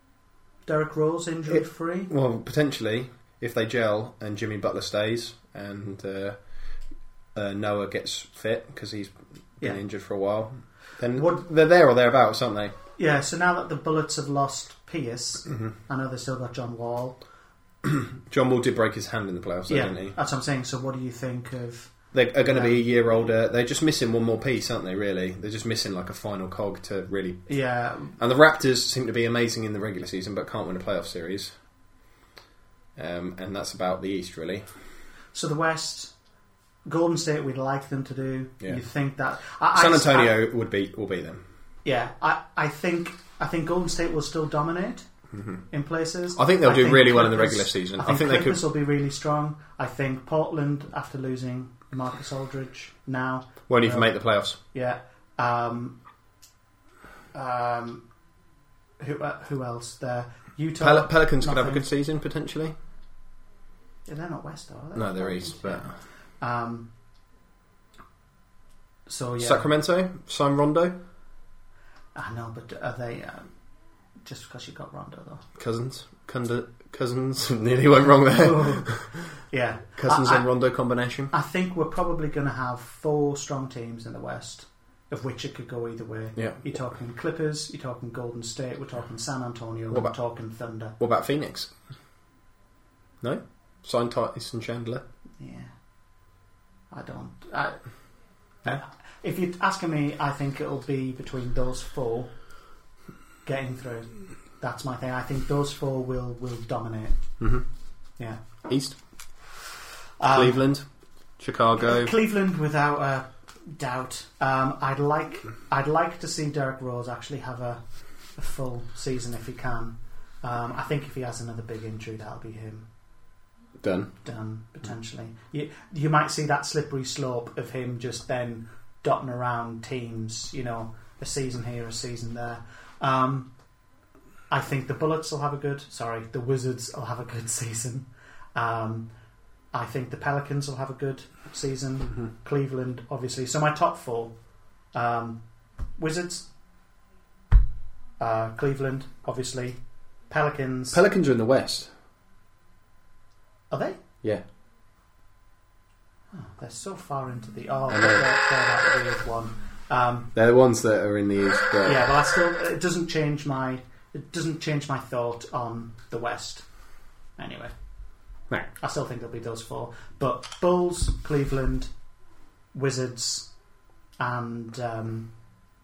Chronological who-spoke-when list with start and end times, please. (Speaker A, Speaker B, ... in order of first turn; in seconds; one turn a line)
Speaker A: 0.7-2.1
Speaker B: 1.5-6.4
Speaker B: 7.3-12.7
Speaker A: 13.0-17.2
Speaker B: 17.8-20.1
Speaker A: 19.7-21.9
Speaker B: 22.1-27.5
Speaker A: 22.5-22.8
Speaker A: 27.5-28.1
Speaker B: 28.2-31.5
Speaker B: 33.0-34.7
Speaker A: 35.3-36.1
Speaker A: 36.9-40.3
Speaker B: 39.7-41.4
Speaker A: 41.8-45.0
Speaker B: 45.3-45.6
Speaker A: 45.7-54.1
Speaker B: 46.4-48.6
Speaker B: 53.7-54.6
Speaker A: 54.7-56.0
Speaker A: 57.3-58.0
Speaker A: 59.0-61.8
Speaker B: 60.8-62.7
Speaker A: 64.0-66.9
Speaker B: 64.9-65.9
Speaker A: 69.1-69.7
Speaker B: 69.4-71.0
Speaker A: 72.2-73.5
Speaker A: 74.2-75.4
Speaker B: 75.5-79.2
Speaker A: 78.3-78.9
Speaker A: 79.5-80.5
Speaker B: 80.0-81.3
Speaker A: 81.3-91.0
Speaker B: 86.3-86.6
Speaker B: 91.0-91.7
Speaker B: 93.2-95.0
Speaker A: 95.4-95.7
Speaker A: 96.9-97.8
Speaker A: 98.6-102.3
Speaker A: 103.4-107.2
Speaker B: 107.4-107.6
Speaker B: 108.7-109.0
Speaker A: 110.2-110.6
Speaker B: 110.3-110.8
Speaker B: 111.4-112.1
Speaker A: 111.8-117.8
Speaker A: 118.3-122.8
Speaker B: 123.8-124.1
Speaker A: 124.2-133.5
Speaker A: 134.5-139.1
Speaker A: 139.7-144.3
Speaker A: 144.9-145.4
Speaker A: 146.0-146.5
Speaker A: 148.2-149.8
Speaker A: 150.3-151.0
Speaker B: 150.9-151.9
Speaker A: 153.7-154.0
Speaker A: 156.3-160.3
Speaker B: 157.9-158.2
Speaker B: 160.3-162.1
Speaker A: 161.8-166.7
Speaker A: 167.4-167.7
Speaker A: 168.8-171.9
Speaker A: 172.7-173.5
Speaker A: 174.2-175.3